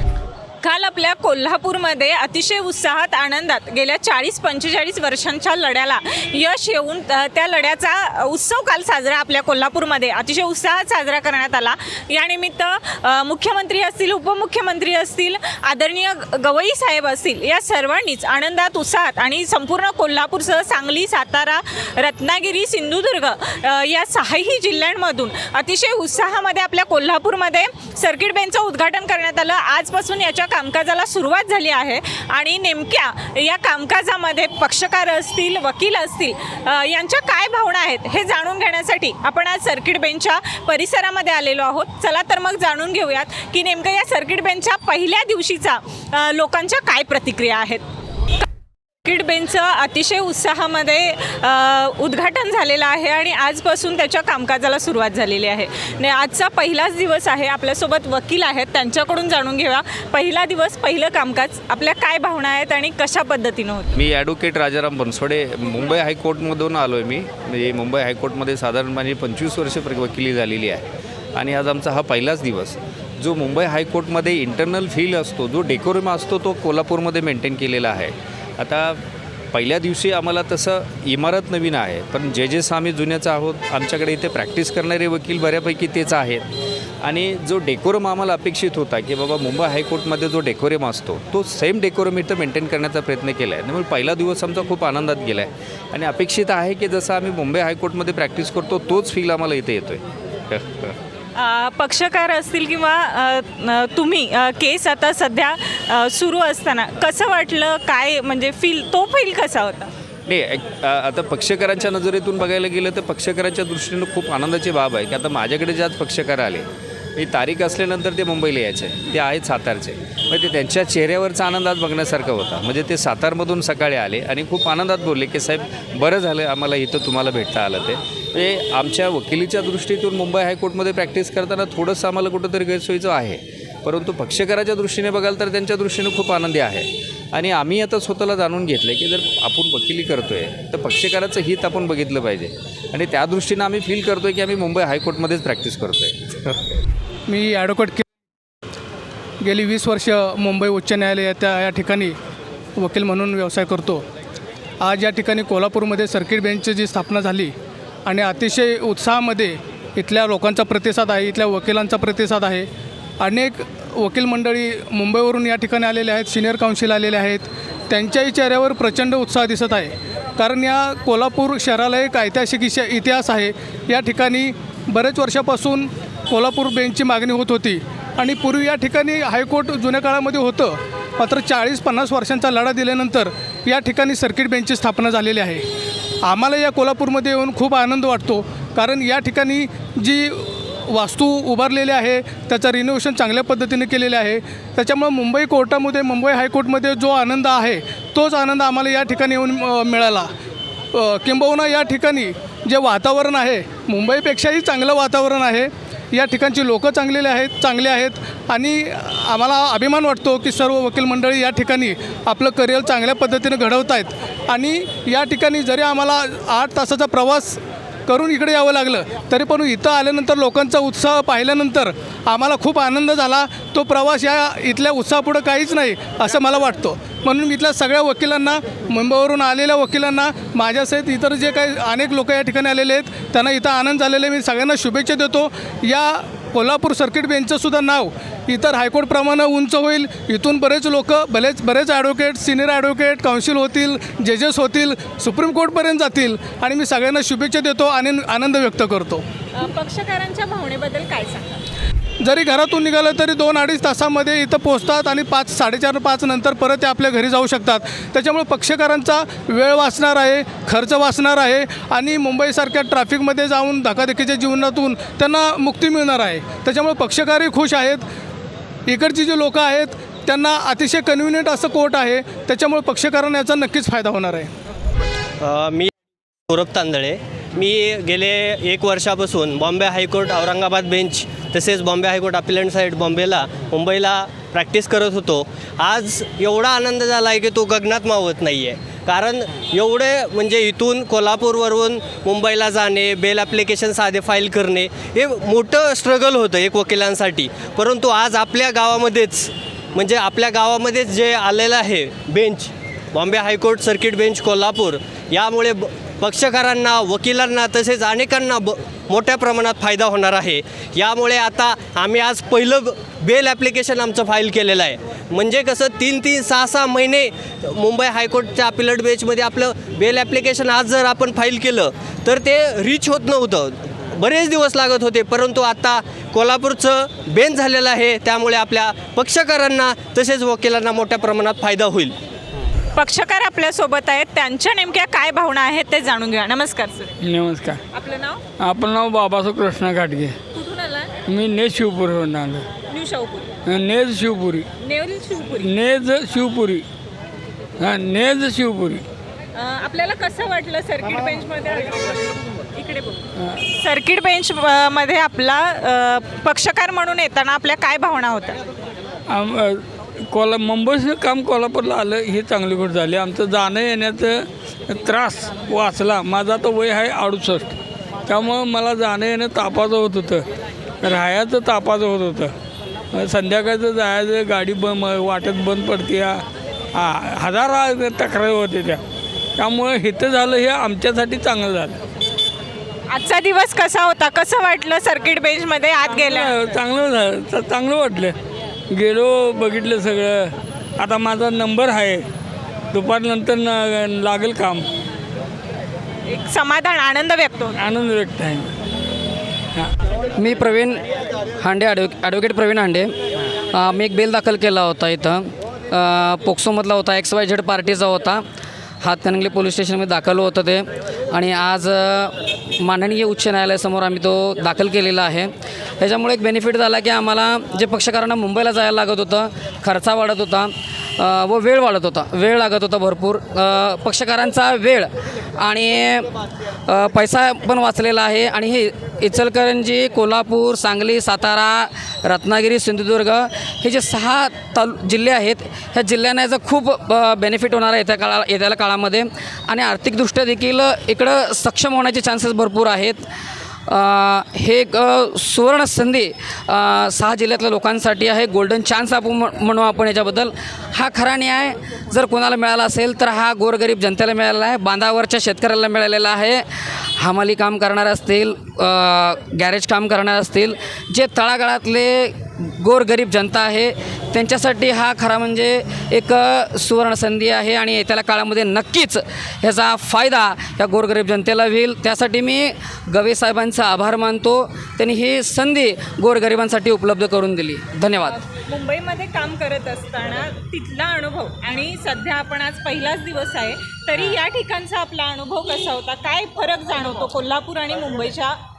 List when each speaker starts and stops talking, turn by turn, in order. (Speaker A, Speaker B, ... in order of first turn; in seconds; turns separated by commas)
Speaker A: 0.6-47.8, Speaker A: 49.0-63.9, Speaker B: 64.0-70.8, Speaker B: 71.3-79.0, Speaker B: 79.5-86.5, Speaker B: 87.0-100.9, Speaker A: 101.4-109.9, Speaker B: 110.3-146.6, Speaker C: 147.3-148.0, Speaker C: 149.4-152.1, Speaker C: 152.8-154.0, Speaker C: 154.9-157.5, Speaker C: 158.1-162.6, Speaker C: 163.2-169.9, Speaker C: 170.4-185.6, Speaker C: 186.3-190.4, Speaker C: 190.9-200.3, Speaker C: 201.0-217.6, Speaker C: 218.1-249.2, Speaker A: 249.6-251.6, Speaker C: 252.2-268.0, Speaker C: 268.9-274.5, Speaker D: 275.4-275.9, Speaker D: 276.5-332.2, Speaker A: 333.0-337.1, Speaker E: 337.2-337.8, Speaker A: 337.9-338.4, Speaker E: 338.6-340.4, Speaker A: 340.5-341.1, Speaker E: 341.3-342.7, Speaker A: 342.9-343.5, Speaker E: 343.7-344.7, Speaker A: 344.8-345.7, Speaker E: 345.6-346.9, Speaker E: 347.8-349.0, Speaker A: 349.6-353.3, Speaker A: 353.8-358.6, Speaker E: 359.3-367.7, Speaker E: 368.3-370.4, Speaker E: 371.0-372.5, Speaker E: 373.2-376.4, Speaker E: 376.9-379.0, Speaker E: 379.6-382.0, Speaker A: 383.1-386.6, Speaker E: 386.2-388.4, Speaker E: 388.9-392.2, Speaker E: 392.9-394.9, Speaker A: 396.3-397.7, Speaker E: 397.8-398.7, Speaker F: 400.4-401.0, Speaker F: 401.6-403.1, Speaker F: 403.7-408.4, Speaker F: 409.0-426.3, Speaker F: 426.9-443.2, Speaker F: 443.9-478.4, Speaker A: 478.3-488.6